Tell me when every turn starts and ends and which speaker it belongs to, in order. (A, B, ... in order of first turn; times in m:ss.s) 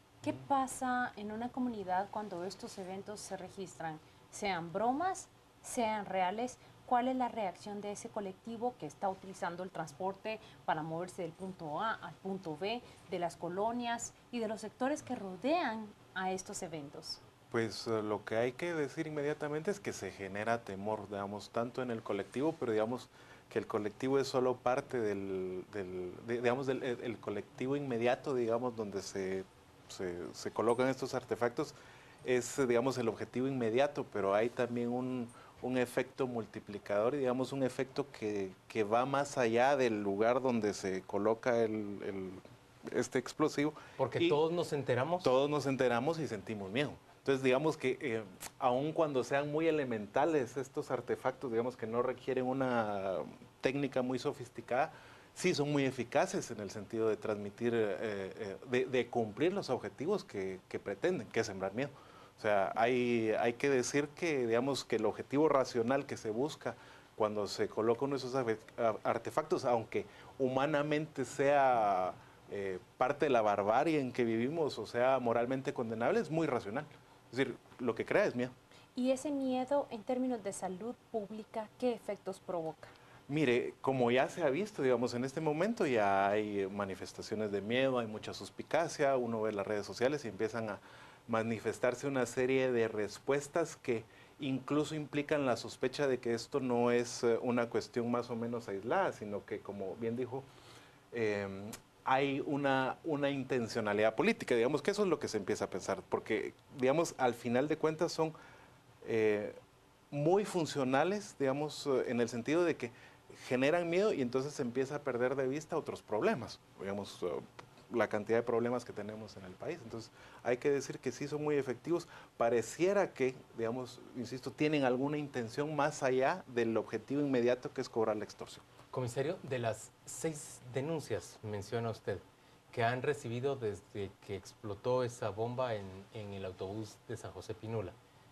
0:00.2-0:17.2 A
0:17.5-0:44.4 B
0:44.0-0:45.3 C
0:45.2-1:18.5 B
1:19.0-1:22.9 A
1:23.3-1:40.4 B
1:41.1-1:48.3 B
1:49.0-1:49.6 B
1:50.1-2:08.6 B
2:08.9-2:18.0 C